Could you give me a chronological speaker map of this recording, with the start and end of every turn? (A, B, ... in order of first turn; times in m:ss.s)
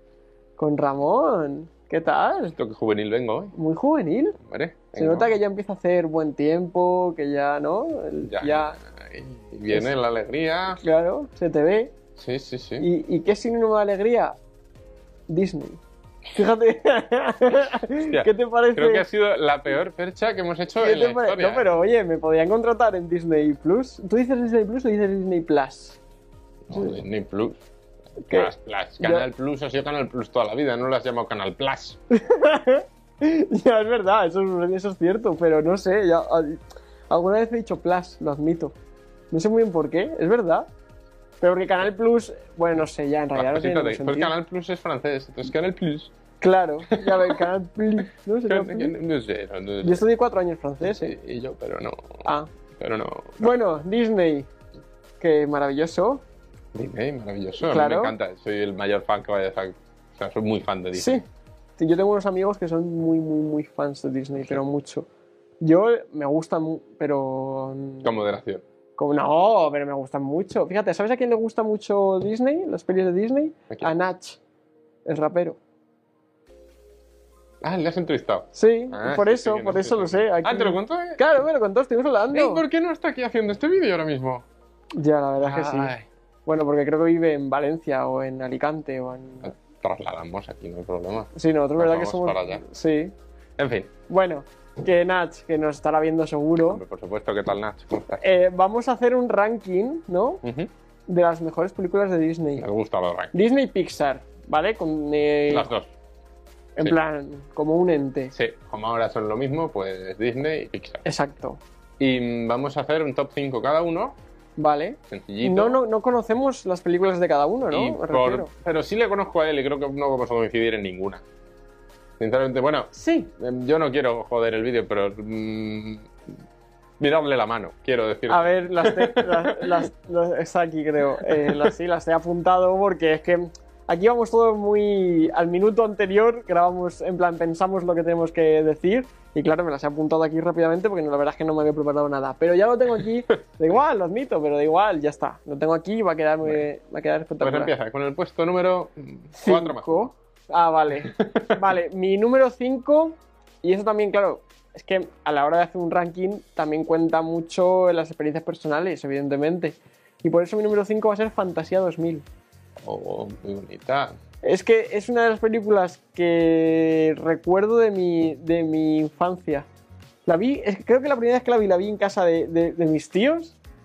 0:00.6-0:02.6 A
0:02.6-0:03.5 B
0:03.5-0:04.4 A
0:04.4-0:05.4 B
0:04.9-0:08.8 A
0:08.2-0:10.8 B
0:10.8-0:11.9 A
0:12.2-0:12.9 B
0:12.8-0:14.4 A
0:15.3-0:15.8 A
0:16.3-0:19.0 A
0:18.1-0:21.7 B
0:20.8-0:26.0 A
0:26.7-0:27.6 B
0:28.2-0:29.2 A
0:28.3-0:32.0 B
0:32.1-0:38.7 A
0:39.3-0:40.7 A
0:41.4-0:44.3 A
0:43.3-0:46.1 B
0:46.4-0:48.9 A
0:46.9-0:47.4 B
0:48.4-0:50.0 B
0:49.8-0:51.1 A
0:50.8-0:52.2 B
0:52.2-0:52.5 A
0:52.8-0:53.5 B
0:53.4-0:54.5 A
0:55.2-0:56.2 A
0:56.7-1:01.2 B
0:57.6-0:58.1 A
1:00.9-1:01.2 A
1:01.8-1:05.1 A
1:05.6-1:08.1 A
1:08.0-1:08.6 B
1:09.0-1:14.4 A
1:15.0-1:15.6 A
1:17.6-1:21.2 B
1:18.5-1:22.6 A
1:22.3-1:24.4 B
1:25.0-1:25.9 A
1:25.4-1:26.0 B
1:26.4-1:29.5 A
1:29.4-1:32.6 B
1:31.3-1:33.1 A
1:33.6-1:33.9 B
1:34.1-1:36.8 A
1:36.7-1:38.2 B
1:38.2-1:40.4 A
1:40.4-1:40.7 B
1:41.1-1:42.6 A
1:42.6-1:43.4 B
1:43.3-1:45.7 A
1:45.5-1:45.9 B
1:46.8-1:48.3 A
1:48.3-1:51.0 B
1:51.0-1:51.6 A
1:52.0-1:54.2 B
1:54.6-1:58.5 A
1:55.1-1:55.8 B
1:57.7-2:01.2 B
2:02.2-2:06.1 B
2:02.9-2:03.3 A
2:07.0-2:09.9 B
2:08.3-2:27.7 A
2:11.4-2:11.7 B
2:27.4-2:30.1 B
2:29.4-2:42.2 A
2:31.1-2:31.5 B
2:42.8-2:44.1 B
2:44.4-2:49.7 A
2:50.2-2:53.6 A